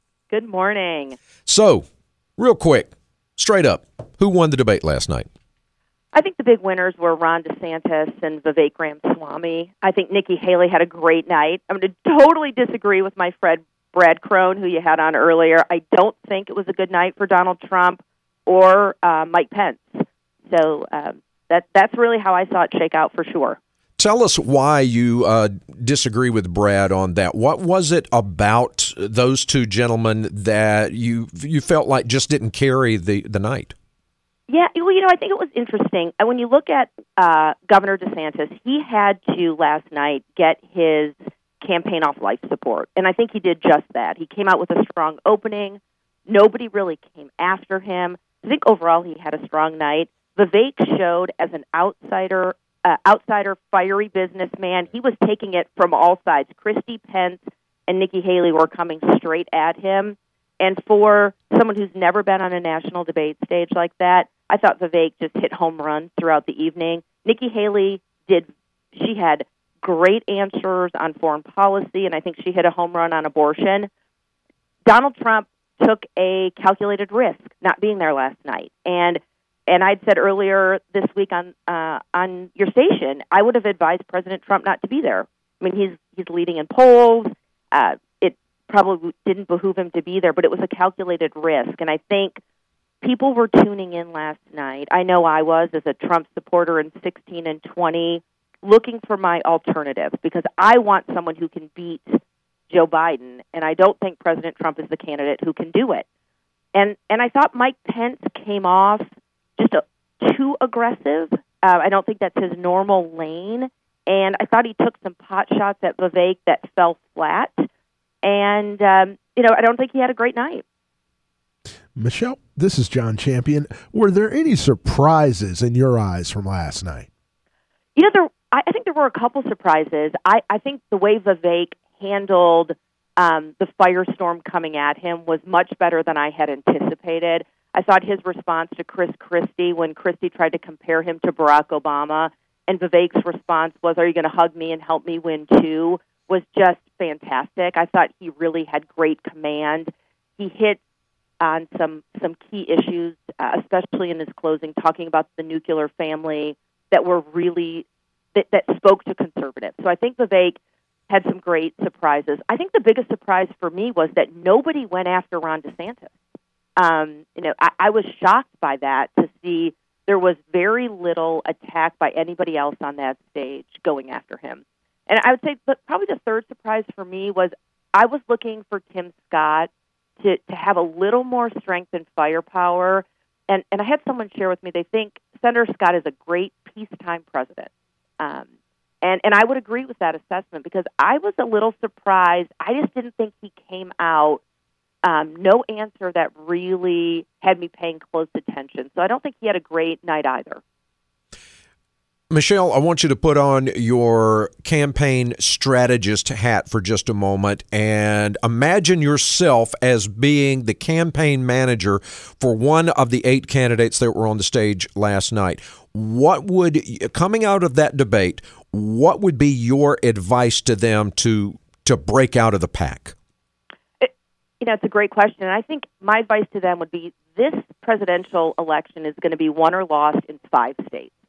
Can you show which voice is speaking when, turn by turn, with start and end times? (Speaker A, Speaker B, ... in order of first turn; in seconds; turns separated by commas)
Speaker A: 0.3-1.2, Speaker B: 1.5-1.9, Speaker B: 2.4-5.3, Speaker A: 6.1-23.6, Speaker B: 24.0-33.7, Speaker A: 34.5-73.9, Speaker A: 74.9-92.4, Speaker A: 93.0-106.0, Speaker A: 106.7-117.7, Speaker A: 118.2-120.6, Speaker C: 122.0-127.1, Speaker A: 128.0-150.8, Speaker A: 151.4-160.6, Speaker A: 161.1-166.1, Speaker A: 166.8-179.7, Speaker A: 180.2-188.5, Speaker A: 189.0-194.4, Speaker A: 195.0-200.6, Speaker B: 202.3-223.2, Speaker A: 224.0-231.2